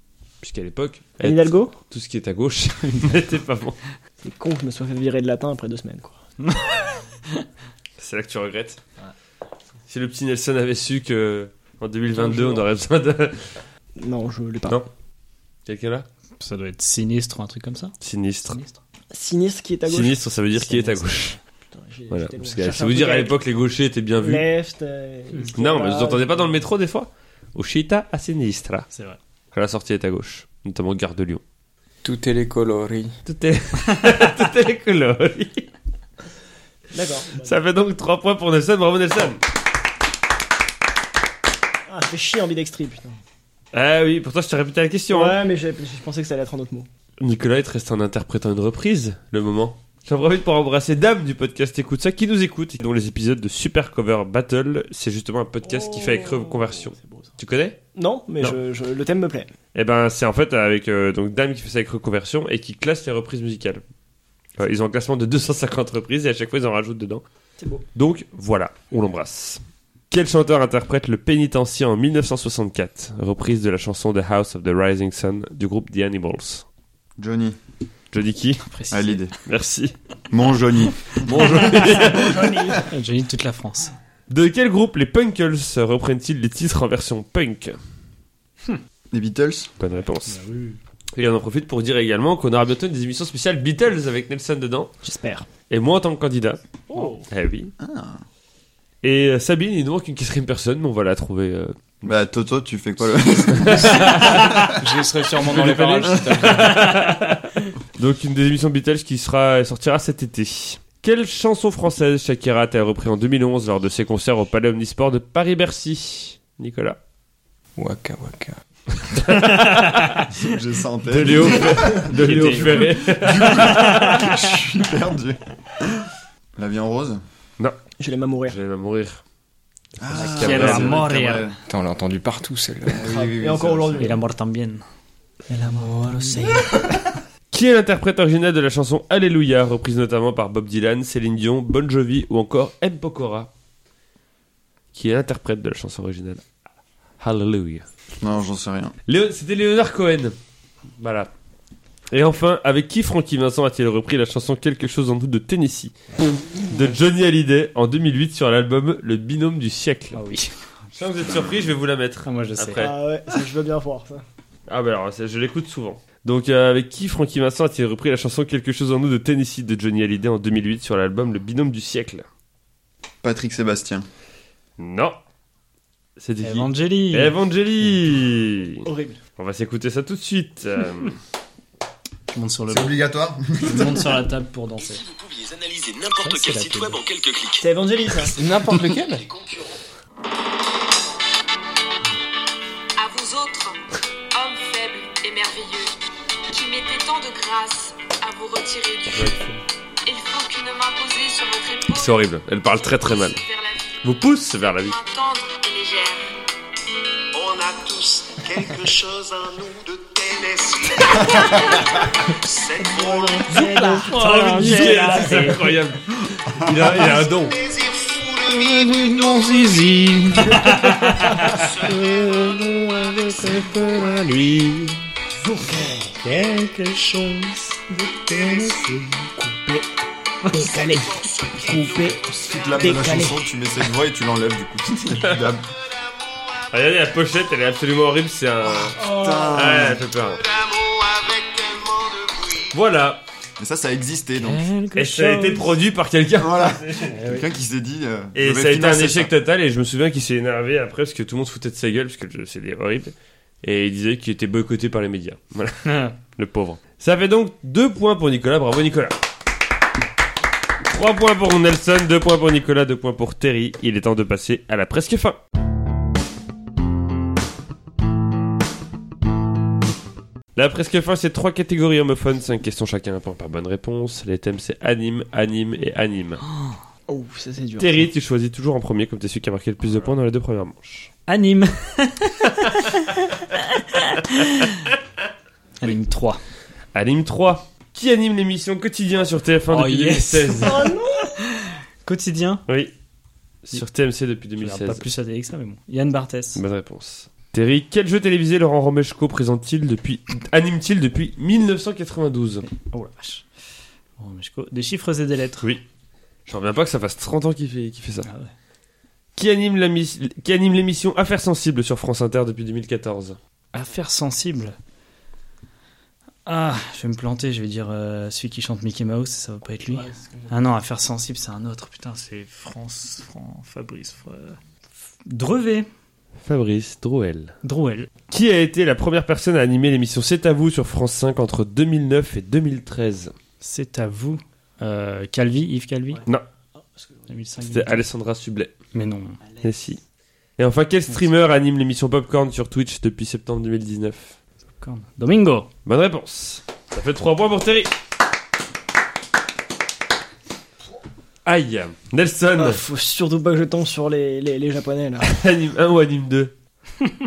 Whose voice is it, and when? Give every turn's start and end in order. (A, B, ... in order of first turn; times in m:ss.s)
0:00.4-0:03.8 A
0:01.2-0:01.7 B
0:02.9-0:03.2 C
0:04.2-0:06.2 B
0:06.4-0:07.0 C
0:08.0-0:08.8 A
0:09.9-0:13.5 A
0:12.2-0:12.7 B
0:14.0-0:14.8 B
0:15.7-0:16.1 A
0:16.4-0:18.0 C
0:18.0-0:18.6 A
0:18.5-0:18.8 C
0:19.1-0:21.0 B
0:19.9-0:21.4 A
0:20.7-0:21.4 C
0:21.7-0:23.4 B
0:22.1-0:24.5 A
0:24.2-0:26.6 B
0:25.5-0:28.9 A
0:28.9-0:29.2 C
0:29.5-0:31.4 A
0:32.0-0:33.2 D
0:33.2-0:35.7 A
0:36.9-0:37.6 B
0:37.4-0:39.4 A
0:41.9-0:43.2 B
0:43.7-0:45.4 A
0:45.1-0:46.9 B
0:47.2-0:57.8 A
0:55.6-0:57.3 B
0:58.0-0:59.5 B
0:59.7-1:03.8 A
1:04.6-1:07.2 A
1:07.6-1:07.8 B
1:07.9-1:16.6 A
1:17.2-1:17.6 E
1:18.1-1:18.7 A
1:18.7-1:19.2 C
1:18.9-1:19.4 E
1:19.4-1:19.9 A
1:20.3-1:21.7 E
1:21.2-1:22.8 A
1:21.6-1:22.9 B
1:22.9-1:23.9 C
1:24.3-1:27.8 A
1:29.1-1:29.7 E
1:29.8-1:30.4 A
1:30.3-1:30.8 C
1:31.2-1:34.9 A
1:35.0-1:35.5 B
1:35.7-1:36.6 A
1:36.9-1:37.2 B
1:36.9-1:37.2 C
1:37.3-1:37.7 A
1:37.8-1:38.2 E
1:39.0-1:42.1 A
1:42.0-1:44.7 E
1:43.5-1:44.7 A
1:43.8-1:46.9 D
1:45.5-1:57.0 A
1:57.8-1:58.6 D
1:59.1-2:00.2 A
1:59.4-2:00.2 C
2:00.3-2:06.0 E
2:01.1-2:04.3 A
2:02.1-2:02.8 C
2:03.5-2:04.6 C
2:06.6-2:07.2 E
2:08.0-2:08.6 B
2:08.5-2:09.2 A
2:10.0-2:11.6 E
2:10.0-2:11.1 A
2:10.1-2:11.5 C
2:11.7-2:13.3 D
2:12.9-2:14.2 E
2:13.0-2:14.2 B
2:14.0-2:14.8 C
2:15.5-2:16.9 B
2:15.7-2:16.6 D
2:17.5-2:23.5 A
2:24.9-2:26.4 A
2:27.2-2:27.9 A
2:28.2-2:29.0 E
2:29.1-2:30.4 A
2:31.0-2:31.3 A
2:32.1-2:36.0 A
2:36.5-2:40.2 A
2:40.1-2:40.5 C
2:41.0-2:43.0 A
2:42.2-2:42.8 C
2:42.8-2:44.2 B
2:44.7-2:52.2 A
2:53.2-2:54.1 E
2:54.8-2:55.2 A
2:56.2-2:58.8 A
2:56.4-2:57.4 C
2:58.8-2:59.2 B
2:59.4-3:01.2 A
3:02.3-3:03.0 C
3:02.7-3:04.1 E
3:03.6-3:05.0 C
3:04.9-3:07.7 F
3:06.2-3:07.0 C
3:07.6-3:08.4 B
3:08.3-3:09.2 D
3:09.2-3:09.7 F
3:13.0-3:15.9 G
3:16.5-3:19.4 G
3:19.1-3:19.6 A
3:20.0-3:22.3 G
3:21.9-3:23.4 A
3:22.8-3:24.2 G
3:24.0-3:25.0 A
3:24.8-3:26.3 G
3:27.3-3:33.7 F
3:32.8-3:35.2 B
3:33.5-3:37.6 A
3:33.6-3:35.6 C
3:37.0-3:39.9 F
3:38.5-3:40.4 D
3:40.4-3:41.5 C
3:41.3-3:41.5 B
3:41.5-3:44.5 F
3:41.8-3:45.0 A
3:45.4-3:46.4 B
3:46.2-3:47.0 F
3:46.4-3:47.8 C
3:48.2-3:49.1 F
3:48.3-3:49.9 B
3:48.8-3:49.1 C
3:50.5-3:51.1 B
3:50.5-3:53.4 F
3:51.6-3:53.5 B
3:52.4-3:55.7 E
3:56.0-3:56.7 F
3:56.7-4:00.4 A
3:58.9-4:00.0 E
3:59.0-3:59.9 B
4:00.3-4:02.8 F
4:02.7-4:03.2 A
4:03.6-4:04.7 E
4:04.4-4:05.7 C
4:05.0-4:07.2 A
4:06.4-4:09.3 E
4:07.2-4:07.4 C
4:08.4-4:19.2 A
4:15.8-4:16.2 C
4:20.9-4:25.4 A
4:30.6-4:36.4 A
4:37.1-4:38.1 B
4:37.8-4:41.1 A
4:41.3-4:44.7 C
4:45.8-4:46.4 C
4:46.9-4:50.9 A
4:49.7-4:52.6 C
4:50.6-4:51.4 B
4:52.7-4:52.9 A
4:53.6-4:55.0 A
4:54.6-4:56.6 C
4:56.6-5:02.7 A
5:02.7-5:03.4 C
5:04.2-5:05.7 C
5:06.5-5:08.3 A
5:08.2-5:08.5 C
5:09.4-5:13.4 A
5:13.7-5:14.8 C
5:16.5-5:24.6 C
5:19.9-5:20.5 B
5:25.3-5:25.9 C
5:26.4-5:27.5 A
5:27.6-5:28.1 C
5:28.3-5:33.3 A
5:33.6-5:36.2 C
5:37.0-5:37.2 B
5:37.3-5:38.0 C
5:37.6-5:38.7 A
5:38.9-5:39.4 C
5:39.6-5:40.0 A
5:40.6-5:44.4 A
5:44.8-5:45.7 C
5:45.9-5:47.9 A
5:51.5-5:52.8 A
5:52.6-5:55.3 B
5:55.3-5:56.5 A